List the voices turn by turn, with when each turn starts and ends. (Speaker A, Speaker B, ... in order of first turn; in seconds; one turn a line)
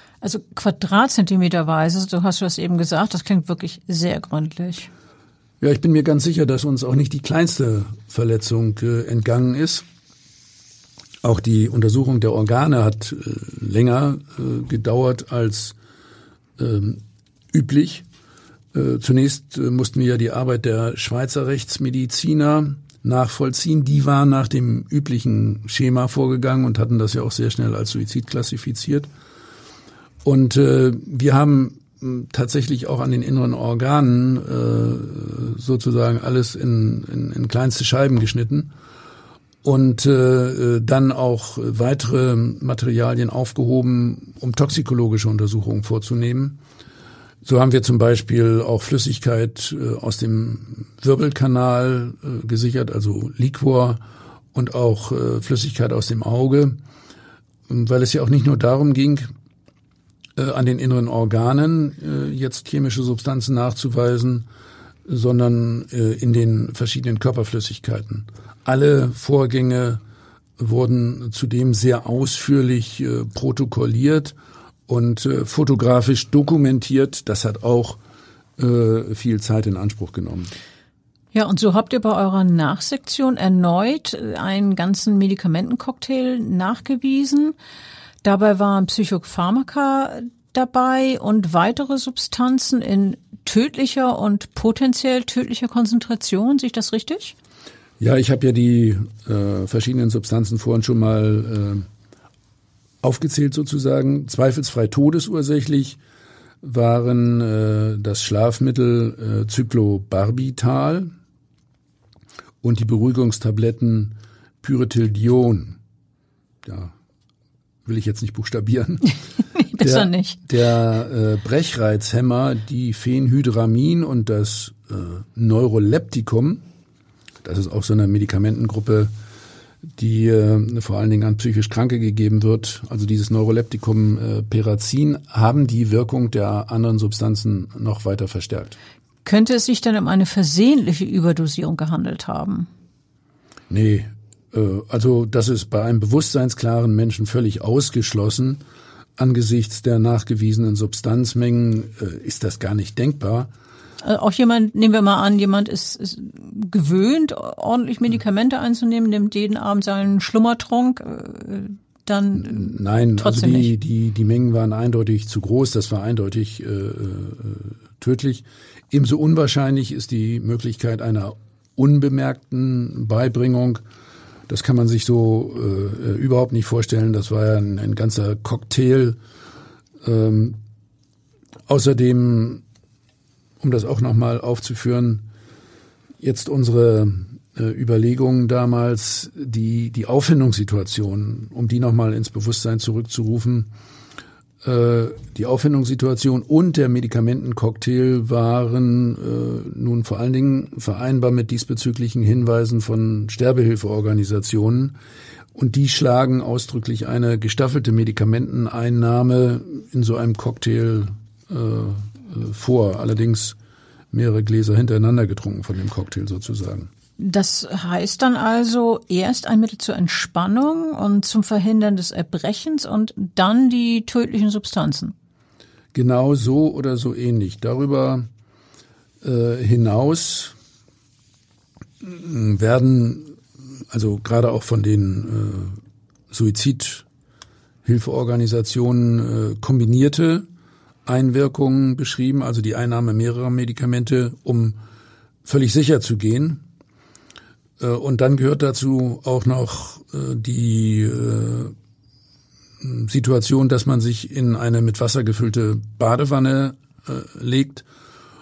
Speaker A: 0.2-4.9
Speaker B: 5.6-9.8
Speaker B: 11.2-15.8
Speaker B: 16.6-18.1
Speaker B: 18.7-29.1
Speaker B: 30.2-38.7
Speaker B: 39.6-46.6
Speaker B: 47.4-54.0
Speaker B: 54.5-56.8
Speaker B: 57.7-59.3
Speaker B: 60.4-64.5
Speaker B: 65.1-70.0
Speaker B: 70.6-74.3
Speaker B: 74.9-78.0
Speaker B: 78.6-80.5
Speaker A: 81.3-87.5
Speaker A: 88.2-97.3
Speaker B: 98.0-101.9
Speaker B: 103.0-106.0
Speaker B: 106.6-111.1
Speaker B: 112.6-115.8
Speaker B: 116.6-116.9
Speaker B: 117.9-119.1
Speaker A: 119.5-120.4
Speaker B: 119.8-126.6
Speaker B: 127.4-129.1
Speaker B: 130.0-138.8
Speaker A: 139.2-142.7
Speaker B: 143.7-148.6
Speaker B: 149.2-153.5
Speaker A: 154.0-163.7
Speaker B: 162.4-173.8
Speaker B: 174.5-179.2
Speaker B: 180.0-180.6
Speaker B: 181.7-182.6
Speaker B: 183.6-185.2
Speaker B: 186.2-193.7
Speaker B: 194.6-205.0
Speaker B: 205.6-213.6
Speaker B: 214.1-216.9
Speaker A: 217.2-225.1
Speaker B: 225.9-228.3
Speaker B: 229.2-230.6
Speaker B: 232.0-233.4
Speaker B: 233.9-235.8
Speaker B: 236.3-237.1
Speaker B: 237.8-240.5
Speaker B: 241.1-244.8
Speaker B: 245.4-246.6
Speaker B: 247.8-251.8
Speaker B: 252.8-257.8